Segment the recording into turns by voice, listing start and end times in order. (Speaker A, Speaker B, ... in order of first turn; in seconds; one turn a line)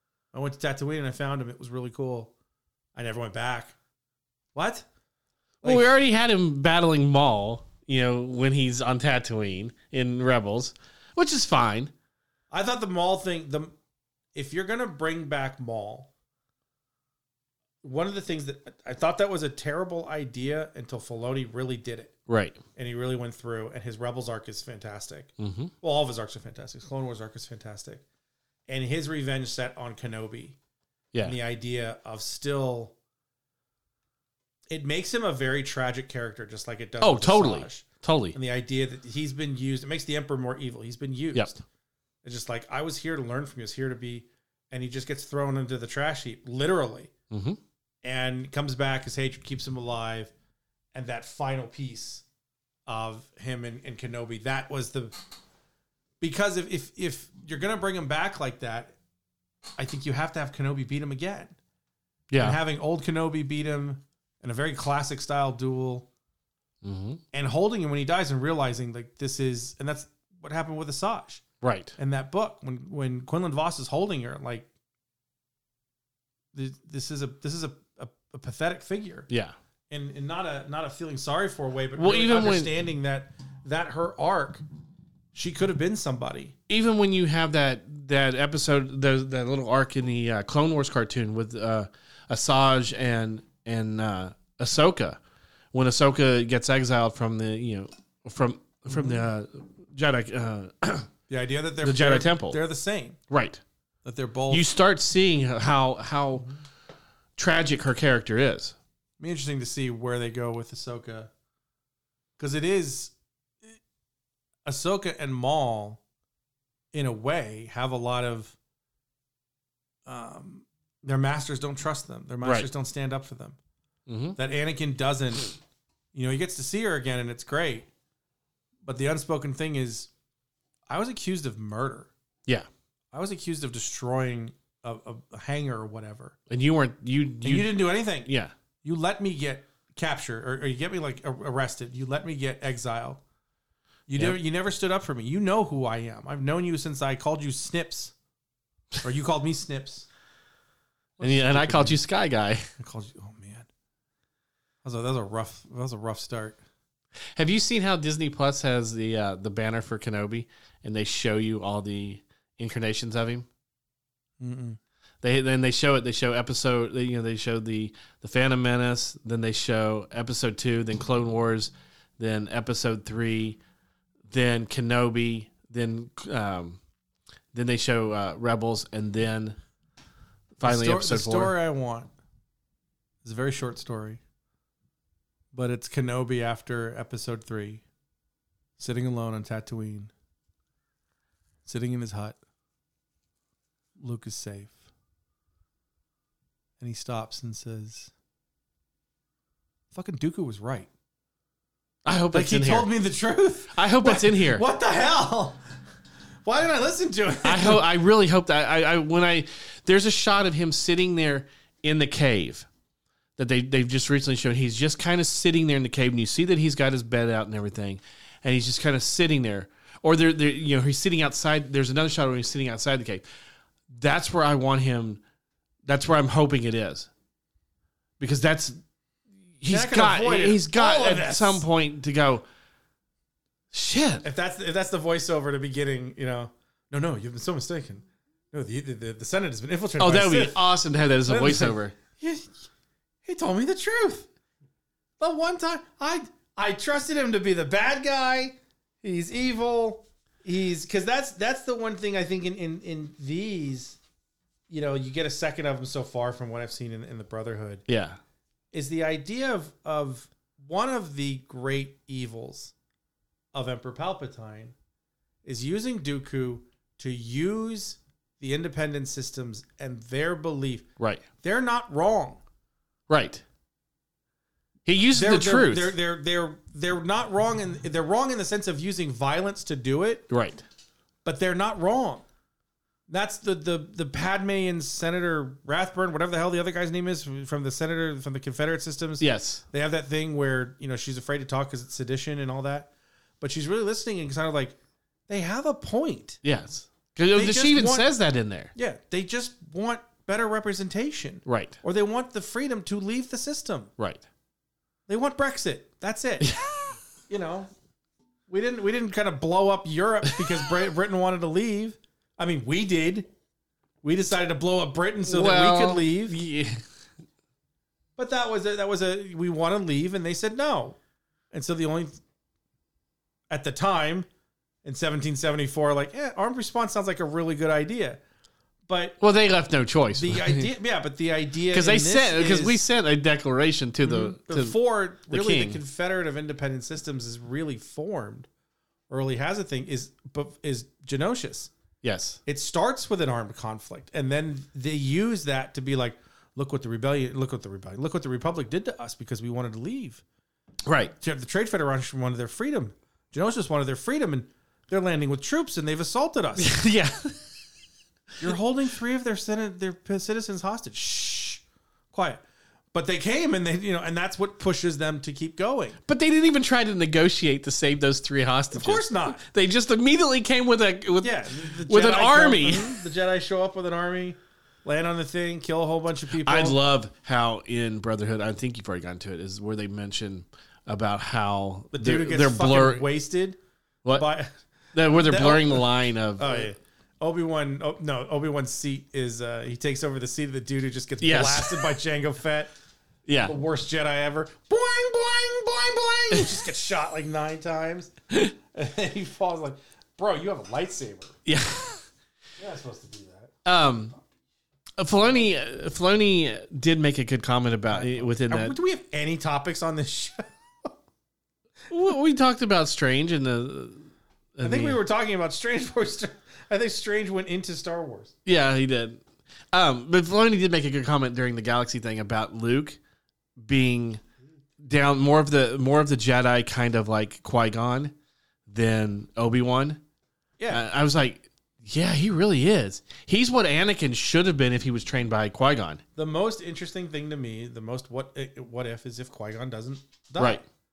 Speaker A: 0.3-2.3
Speaker A: 3.0-3.8
Speaker A: 4.5-4.9
Speaker A: 5.6-5.9
Speaker B: 5.6-11.9
Speaker A: 12.5-13.7
Speaker A: 14.3-16.1
Speaker A: 17.8-22.1
Speaker B: 22.3-22.6
Speaker A: 22.8-28.0
Speaker B: 25.4-25.7
Speaker A: 28.7-30.6
Speaker A: 31.2-33.0
Speaker A: 34.7-41.6
Speaker B: 37.0-38.4
Speaker A: 42.2-47.1
Speaker B: 47.3-47.6
Speaker A: 48.0-50.3
Speaker A: 50.9-52.2
Speaker A: 52.9-55.1
Speaker A: 56.2-59.0
Speaker A: 59.8-61.6
Speaker B: 62.3-62.6
Speaker A: 62.4-66.1
Speaker B: 66.8-67.2
Speaker A: 67.3-71.5
Speaker B: 71.6-72.0
Speaker A: 72.0-74.7
Speaker A: 76.5-79.3
Speaker B: 79.3-79.6
Speaker A: 79.9-84.6
Speaker B: 82.0-82.7
Speaker A: 85.3-86.5
Speaker B: 86.7-95.2
Speaker B: 95.7-101.1
Speaker A: 98.9-99.2
Speaker A: 101.3-103.2
Speaker B: 101.8-102.6
Speaker B: 103.3-103.6
Speaker A: 104.0-104.7
Speaker B: 104.5-106.5
Speaker B: 107.4-108.8
Speaker A: 109.2-111.3
Speaker A: 112.4-113.1
Speaker A: 114.7-116.0
Speaker A: 116.9-118.6
Speaker A: 120.1-123.6
Speaker B: 122.4-122.7
Speaker B: 124.1-124.4
Speaker A: 124.4-125.6
Speaker A: 126.1-127.9
Speaker A: 128.8-130.1
Speaker A: 130.9-132.1
Speaker A: 133.1-136.4
Speaker B: 136.5-138.5
Speaker A: 137.4-138.3
Speaker A: 138.8-143.2
Speaker A: 144.1-148.1
Speaker A: 149.0-150.1
Speaker A: 151.2-152.0
Speaker B: 151.2-152.7
Speaker A: 152.8-153.7
Speaker A: 154.8-156.6
Speaker B: 157.3-163.5
Speaker A: 164.4-164.8
Speaker B: 165.2-173.6
Speaker B: 174.3-176.8
Speaker B: 177.5-179.6
Speaker B: 180.6-181.6
Speaker A: 180.6-182.1
Speaker A: 183.2-184.2
Speaker A: 185.5-187.8
Speaker A: 188.8-190.1
Speaker A: 191.7-192.4
Speaker A: 194.0-194.8
Speaker A: 196.8-198.1
Speaker A: 199.9-200.9
Speaker B: 202.1-202.9
Speaker A: 202.3-205.6
Speaker B: 203.7-204.6
Speaker A: 206.4-207.8
Speaker B: 207.4-212.7
Speaker B: 213.4-223.2
Speaker B: 223.9-225.2
Speaker B: 225.9-227.1
Speaker B: 228.2-228.8
Speaker B: 229.6-232.4
Speaker A: 229.7-231.6
Speaker B: 233.7-234.3
Speaker A: 234.2-242.6
Speaker B: 240.0-241.9
Speaker A: 243.2-244.3
Speaker A: 245.2-254.0
Speaker A: 254.7-257.9
Speaker B: 257.9-258.2
Speaker A: 258.7-262.7
Speaker A: 263.5-264.8
Speaker A: 265.4-270.9
Speaker B: 271.0-271.3
Speaker A: 271.4-272.4
Speaker B: 273.1-273.4
Speaker B: 274.9-276.0
Speaker A: 275.1-280.3
Speaker B: 280.3-280.6
Speaker A: 281.2-282.2
Speaker A: 283.1-294.8
Speaker B: 289.2-289.6
Speaker A: 295.3-296.4
Speaker B: 296.4-298.7
Speaker A: 297.3-298.1
Speaker A: 298.8-303.9
Speaker B: 301.5-301.8
Speaker B: 304.0-304.2
Speaker A: 305.1-306.5
Speaker B: 306.4-306.9
Speaker A: 307.3-307.7
Speaker A: 308.5-313.3
Speaker A: 314.0-316.4
Speaker B: 315.2-316.8
Speaker A: 318.2-321.0
Speaker A: 321.5-322.2
Speaker A: 323.5-324.3
Speaker A: 324.8-328.2
Speaker A: 328.9-329.2
Speaker B: 329.2-330.7
Speaker A: 330.1-332.8
Speaker B: 331.7-334.8
Speaker A: 334.0-338.5
Speaker B: 335.3-335.8
Speaker A: 339.1-341.7
Speaker B: 342.0-342.4
Speaker A: 342.5-350.2
Speaker B: 350.9-351.1
Speaker A: 351.2-356.8
Speaker B: 356.6-357.5
Speaker A: 358.4-366.0
Speaker B: 366.1-372.9
Speaker A: 368.7-369.4
Speaker A: 371.2-376.8
Speaker B: 376.4-383.1
Speaker A: 381.9-383.6
Speaker A: 384.1-384.5
Speaker B: 384.9-386.7
Speaker A: 385.1-392.7
Speaker B: 391.2-391.9
Speaker B: 393.3-393.6
Speaker A: 393.4-401.4
Speaker B: 401.5-402.1
Speaker A: 402.6-403.6
Speaker B: 403.6-404.2
Speaker B: 405.0-408.8
Speaker A: 407.9-410.9
Speaker B: 411.9-415.0
Speaker A: 414.6-418.3
Speaker B: 418.5-423.0
Speaker B: 423.6-424.2
Speaker B: 424.8-428.1
Speaker B: 428.7-430.0
Speaker B: 430.7-436.0
Speaker A: 436.2-440.6
Speaker B: 440.4-440.6